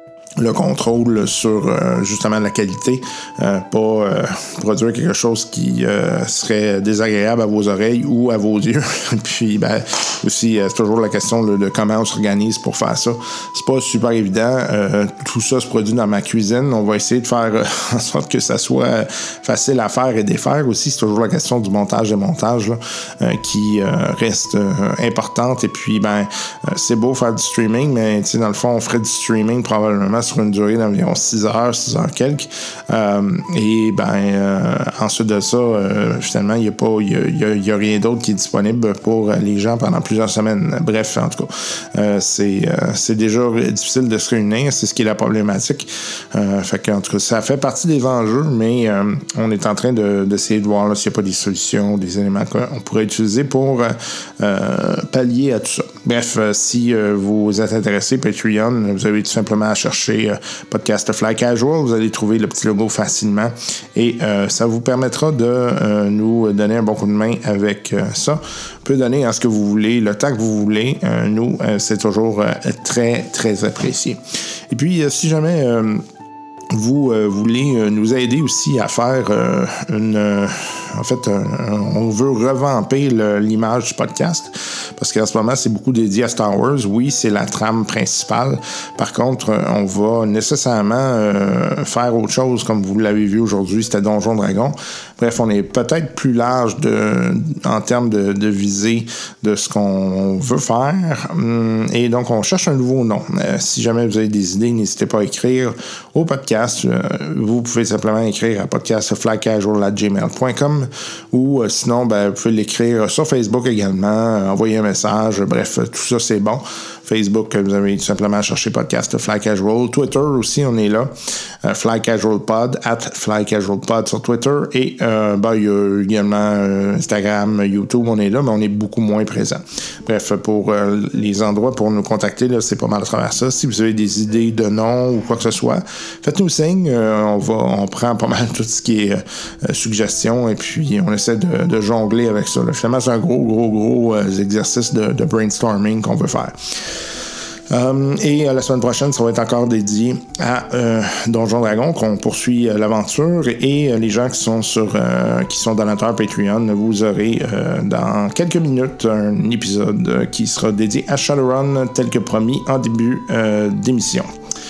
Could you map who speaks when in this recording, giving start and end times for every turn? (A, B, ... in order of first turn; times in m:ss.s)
0:00.4-1:16.0 A
1:16.7-2:27.2 A
2:27.7-2:44.3 A